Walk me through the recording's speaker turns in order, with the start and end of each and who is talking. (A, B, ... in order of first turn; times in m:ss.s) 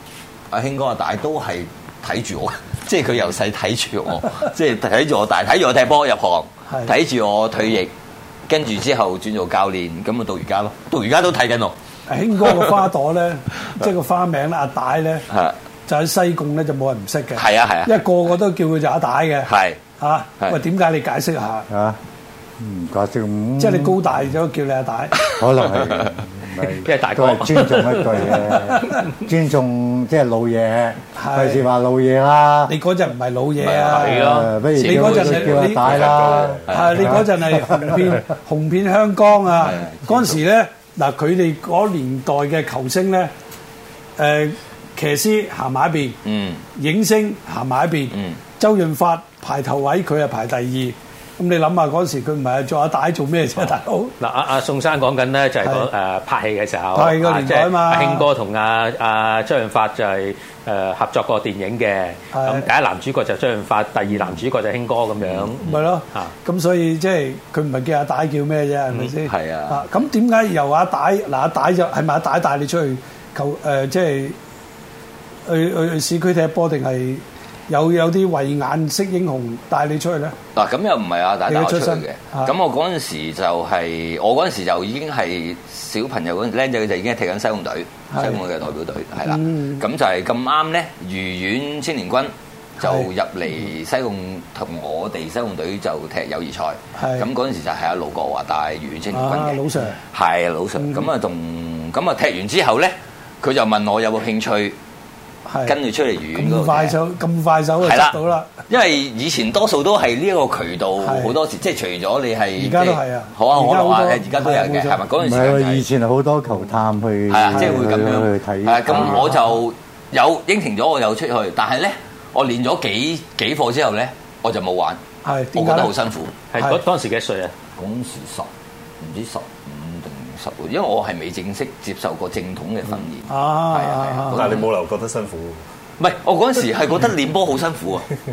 0:00.5-0:07.9 A
0:08.5-0:11.7 A
0:12.1-0:15.2 B
0:12.5-0:12.7 A
0:15.3-0:15.5 A
0:15.9-0:19.5 B
0:17.3-0:17.9 A
0:19.4-0:19.8 A
0:20.0-0:21.7 B
0:21.7-0:22.0 C
0:22.6-0:24.0 C
0:23.6-0:25.2 B
0:25.4-0:32.8 C
0:26.8-0:28.5 D
0:31.2-0:31.6 B
0:32.7-0:34.3 B
0:33.6-0:34.1 A
0:33.8-0:34.5 D
0:34.1-0:38.2 C
0:34.7-0:37.1 A
0:34.8-0:35.9 B
0:35.9-0:36.6 E
0:36.7-0:43.3 B
0:39.6-0:40.4 A
0:44.2-0:46.2 B
0:46.2-0:46.6 A
0:46.8-0:54.1 B
0:54.2-1:06.3 D
0:55.6-0:55.9 B
0:56.9-0:58.2 B
1:02.3-1:02.7 B
1:05.2-1:05.8 A
1:05.6-1:14.4 B
1:09.2-1:09.8 A
1:15.4-1:20.3 B
1:20.5-1:44.8 A
1:21.5-1:22.5 B
1:28.1-1:28.4 B
1:29.2-1:29.8 B
1:32.8-1:33.1 B
1:37.0-1:37.2 B
1:39.1-1:40.0 B
1:40.8-1:41.0 B
1:45.5-1:45.7 B
1:45.6-1:46.9 A
1:46.4-1:48.5 B
1:47.8-1:48.2 A
1:48.7-1:55.8 A
1:51.0-1:51.3 B
1:52.6-1:55.0 B
1:55.2-1:59.3 C
1:57.3-2:05.0 A
1:59.0-1:59.4 B
2:05.2-2:05.9 B
2:05.5-2:06.4 A
2:06.5-2:07.5 D
2:07.8-2:08.5 A
2:09.0-2:14.6 A
2:13.3-2:14.5 B
2:14.4-2:15.6 E
2:16.0-2:18.1 A